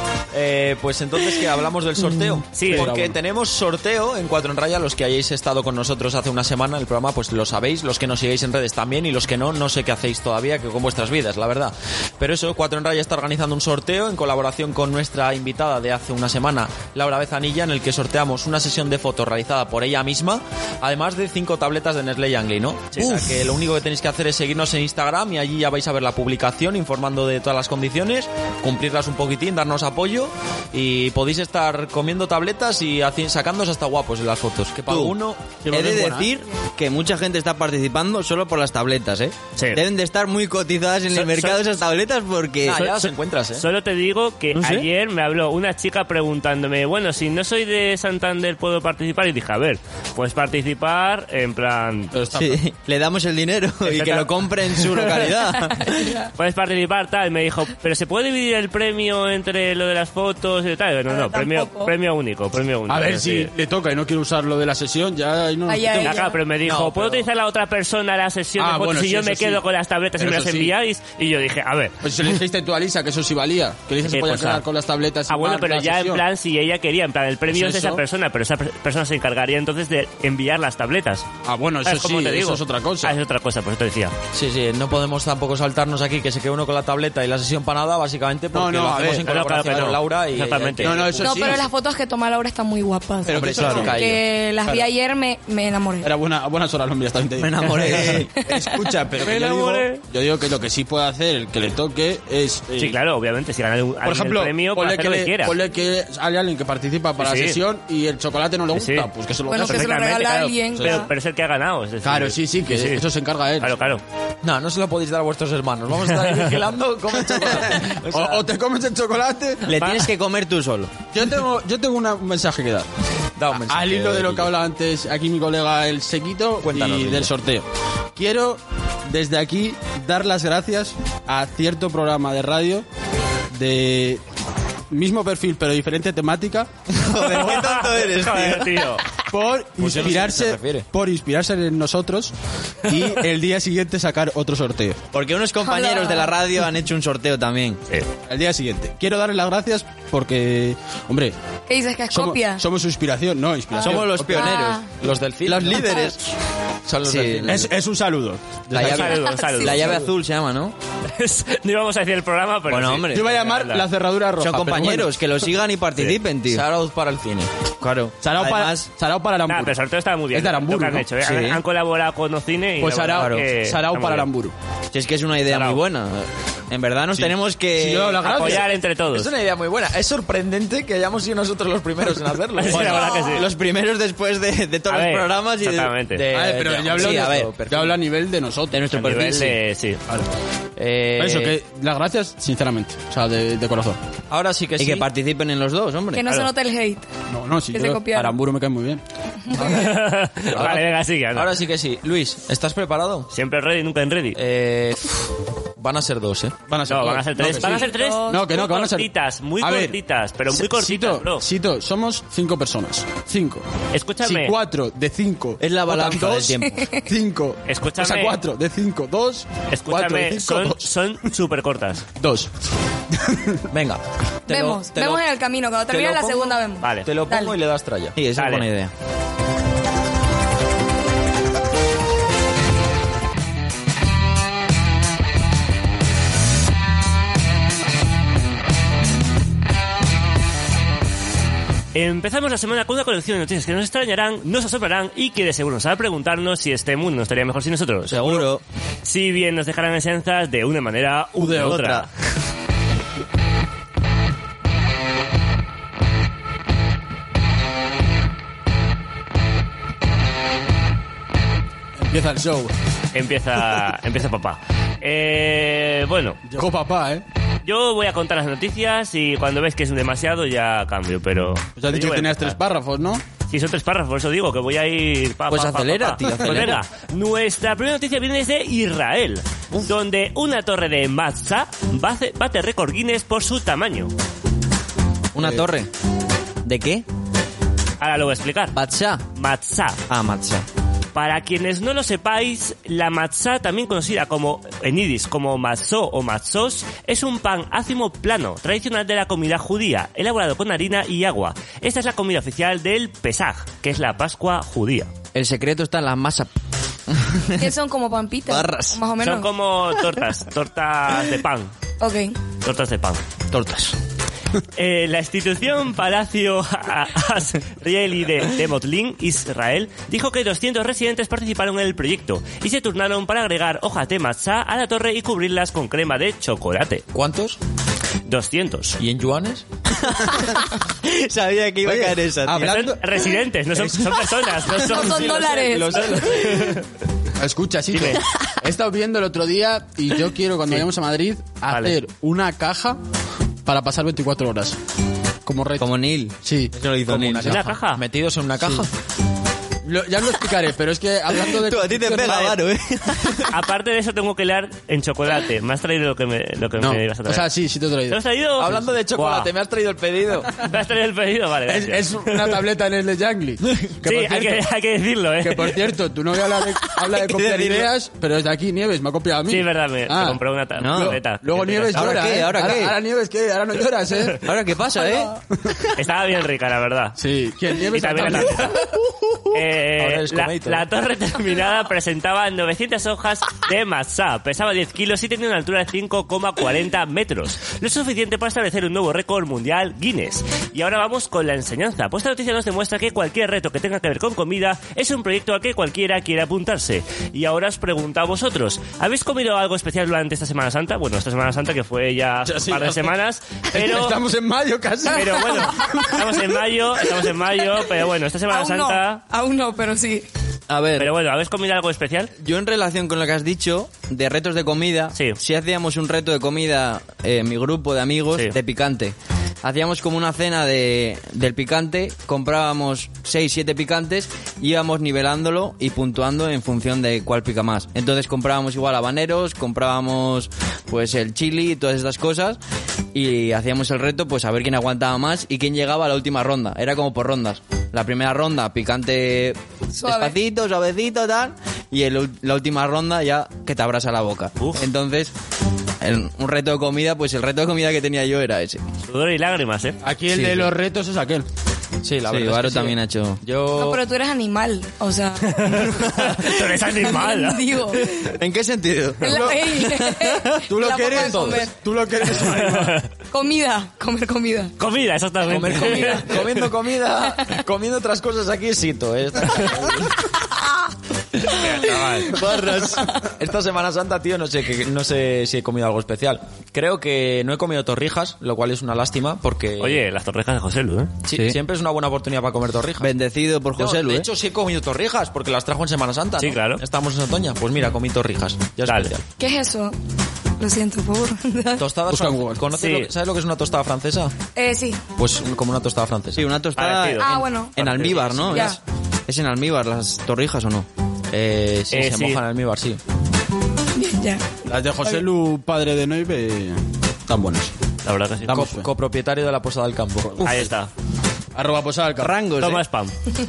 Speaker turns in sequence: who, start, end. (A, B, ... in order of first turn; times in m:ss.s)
0:00.3-0:35.6 A
0:02.5-0:02.9 B
0:02.6-0:03.2 C
0:34.9-0:35.2 D
0:35.6-0:36.3 C
0:35.7-0:43.0 D
0:39.6-0:39.8 B
0:41.1-0:41.6 A
0:42.6-0:43.6 A
0:43.6-0:52.1 B
0:44.5-0:44.9 D
0:52.1-0:52.6 C
0:52.3-0:56.0 D
0:53.8-0:55.3 B
0:55.8-0:56.3 E
0:56.3-1:03.5 B
1:01.1-1:01.9 E
1:02.9-1:06.2 C
1:05.7-1:06.4 E
1:06.0-1:12.0 B
1:06.6-1:07.2 A
1:08.6-1:09.6 C
1:10.2-1:10.7 C
1:12.0-1:16.2 C
1:14.0-1:14.6 B
1:15.3-1:21.3 B
1:17.5-1:18.0 C
1:21.4-1:23.2 C
1:21.8-1:24.2 B
1:24.3-1:31.6 A
1:28.5-1:30.0 C
1:29.2-1:31.1 B
1:30.8-1:31.6 C
1:31.2-1:36.1 E
1:33.3-1:34.0 C
1:33.3-1:34.2 A
1:33.4-1:34.0 D
1:36.0-1:43.0 C
1:37.4-1:38.3 D
1:39.2-1:40.0 B
1:42.8-1:45.6 B
1:44.0-1:50.1 C
1:47.2-1:47.6 B
1:48.7-1:53.0 B
1:49.5-1:51.1 E
1:50.7-1:51.1 C
1:52.0-1:53.8 C
1:53.6-1:54.0 B
1:54.4-1:58.4 A
1:57.4-1:59.7 C
1:59.6-2:00.9 D
1:59.7-2:00.1 B
2:01.1-2:02.9 C
2:03.4-2:04.5 A
2:03.5-2:12.8 C
2:06.6-2:07.3 A
2:13.5-2:14.2 C
2:14.9-2:16.7 C
2:16.9-2:18.9 D
2:17.2-2:19.1 B
2:19.3-2:25.0 C
2:19.8-2:20.8 A
2:25.1-2:27.8 D
2:25.6-2:26.3 E
2:28.3-2:31.3 C
2:31.7-2:32.6 E
2:32.1-2:34.6 C
2:33.8-2:34.9 D
2:34.3-2:34.8 E
2:34.9-2:35.9 A
2:35.4-2:36.2 C
2:35.6-2:36.2 D
2:36.8-2:37.7 A
2:37.0-2:37.6 D
2:37.4-2:39.1 C
2:38.7-2:40.7 D
2:38.7-2:40.1 B
2:39.0-2:39.8 E
2:41.0-2:43.9 B
2:42.7-2:43.2 D
2:43.1-2:45.2 C
2:44.4-2:46.6 D
2:46.5-2:47.5 A
2:47.8-2:48.8 D
2:48.2-2:49.8 C
2:49.5-2:54.3 B
2:50.3-2:51.1 C
2:51.2-2:51.6 D
2:52.8-2:54.5 C
2:53.1-2:53.4 D
2:54.9-2:58.6 D
2:55.4-2:55.8 B
2:57.1-2:58.7 C
2:58.2-2:59.3 B
2:59.1-3:03.1 A
3:02.5-3:03.5 B
3:02.6-3:06.0 D
3:04.9-3:06.2 B
3:06.1-3:08.0 A
3:06.3-3:08.8 C
3:06.9-3:07.5 D
3:08.7-3:09.6 D
3:08.9-3:10.0 B
3:10.8-3:11.6 A
3:11.2-3:14.0 C
3:14.3-3:15.1 A
3:14.8-3:16.2 D
3:16.1-3:17.0 E
3:17.3-3:19.0 C
3:17.7-3:18.4 E
3:19.5-3:19.7 E
3:19.6-3:19.8 C
3:19.6-3:21.6 B
3:20.5-3:23.3 A
3:23.3-3:24.4 B
3:24.3-3:26.6 A
3:26.7-3:30.0 C
3:26.9-3:31.4 B
3:27.6-3:28.4 E
3:30.5-3:33.6 C
3:33.9-3:34.5 B
3:34.2-3:40.9 C
3:35.6-3:36.8 D
3:36.7-3:37.0 E
3:37.7-3:38.4 B
3:39.7-3:42.0 B
3:42.2-3:42.5 C
3:43.1-3:43.6 C
3:43.7-3:45.2 A
3:44.5-3:47.6 E
3:45.9-3:48.2 A
3:46.8-3:47.1 B
3:48.2-3:48.9 D
3:48.4-3:48.7 B
4:01.9-4:08.5 B
4:08.1-4:08.6 D
4:09.0-4:12.1 B
4:11.4-4:12.1 D
4:22.0-4:22.7 C
4:23.1-4:26.4 B
4:26.4-4:27.2 C
4:27.6-4:32.6 B
4:31.8-4:33.2 C
4:33.5-4:44.1 B
4:35.5-4:36.8 D
4:45.3-4:45.9 D
4:46.6-4:47.0 D
4:48.0-4:48.8 B
4:48.7-4:49.2 D
4:49.3-4:50.0 B
4:50.1-4:50.6 D
4:51.1-5:05.1 B
5:05.3-5:06.5 D
5:07.1-5:07.7 D
5:07.6-5:09.5 E
5:08.5-5:09.0 D
5:09.2-5:11.7 B
5:12.0-5:12.4 E
5:12.6-5:13.2 B
5:13.5-5:14.0 D
5:14.7-5:27.0 B
5:27.1-5:27.6 A
5:28.2-5:29.0 B
5:29.0-5:29.6 A
5:30.0-5:32.8 D
5:31.8-5:33.0 C
5:32.6-5:36.8 B
5:33.8-5:34.1 C
5:34.7-5:36.3 E
5:34.9-5:36.8 A
5:37.4-5:43.0 C
5:37.9-5:38.2 B
5:41.7-5:42.0 B
5:43.6-5:44.8 C
5:45.4-5:45.9 C
5:45.8-5:47.6 D
5:46.4-5:46.7 C
5:47.1-5:48.9 A
5:47.4-5:48.0 B
5:49.8-5:52.6 C
5:51.4-5:53.6 D
5:53.5-5:57.5 B
5:56.8-5:58.2 C
5:58.1-5:59.5 B
5:58.6-6:00.6 A
6:00.5-6:02.6 B
6:01.7-6:04.6 C
6:04.0-6:05.9 B
6:05.4-6:14.4 C
6:07.1-6:07.9 D
6:09.5-6:12.5 B
6:10.8-6:11.2 D
6:11.9-6:13.0 D
6:14.4-6:15.4 D
6:16.0-6:17.2 B
6:17.2-6:18.8 C
6:17.9-6:18.8 B
6:19.5-6:44.2 B
6:19.9-6:20.8 A
6:42.4-6:43.1 C
6:43.7-6:46.6 C
6:45.1-6:49.2 B
6:48.5-6:50.2 E
6:50.7-6:51.1 D
6:51.0-6:52.3 B
6:52.4-7:12.6 D
7:13.1-7:25.3 D
7:19.9-7:20.4 E
7:24.6-7:24.8 B
7:26.0-7:28.8 D
7:29.1-7:30.0 B
7:30.0-7:31.5 C
7:30.3-7:30.7 A
7:32.0-7:34.0 A
7:32.2-7:33.4 D
7:33.7-7:35.9 E
7:35.4-7:38.0 B
7:35.8-7:36.4 D
7:36.8-7:38.4 E
7:38.2-7:40.7 D
7:39.2-7:41.7 E
7:39.2-7:39.6 C
7:40.6-7:43.0 C
7:41.2-7:41.6 A
7:42.4-7:43.1 B
7:43.3-7:44.7 E
7:44.8-7:46.7 B
7:45.5-7:50.3 A
7:47.2-7:47.6 E
7:51.5-7:52.4 B
7:51.9-7:52.3 A
7:52.3-7:53.1 D
7:53.1-8:00.0 A
7:59.8-8:01.2 B
8:01.2-8:03.1 A
8:03.0-8:04.3 D
8:03.8-8:09.2 A
8:06.4-8:06.8 B
8:08.8-8:09.1 B
8:09.4-8:09.9 E
8:10.6-8:11.8 E
8:11.8-8:14.3 A
8:12.1-8:12.6 C
8:12.7-8:13.1 B
8:14.6-8:15.0 E
8:15.2-8:16.4 A
8:16.4-8:20.9 D
8:16.8-8:18.6 B
8:17.2-8:17.7 E
8:17.8-8:18.6 A
8:18.5-8:18.8 E
8:21.3-8:23.0 A
8:21.9-8:22.4 B
8:24.0-8:24.4 E
8:24.6-8:27.7 C
8:28.0-8:28.7 B
8:28.5-8:30.4 A
8:28.6-8:28.9 C
8:30.2-8:30.7 C
8:30.4-8:30.9 B
8:31.5-8:32.4 C
8:32.2-8:32.8 D
8:32.6-8:33.1 B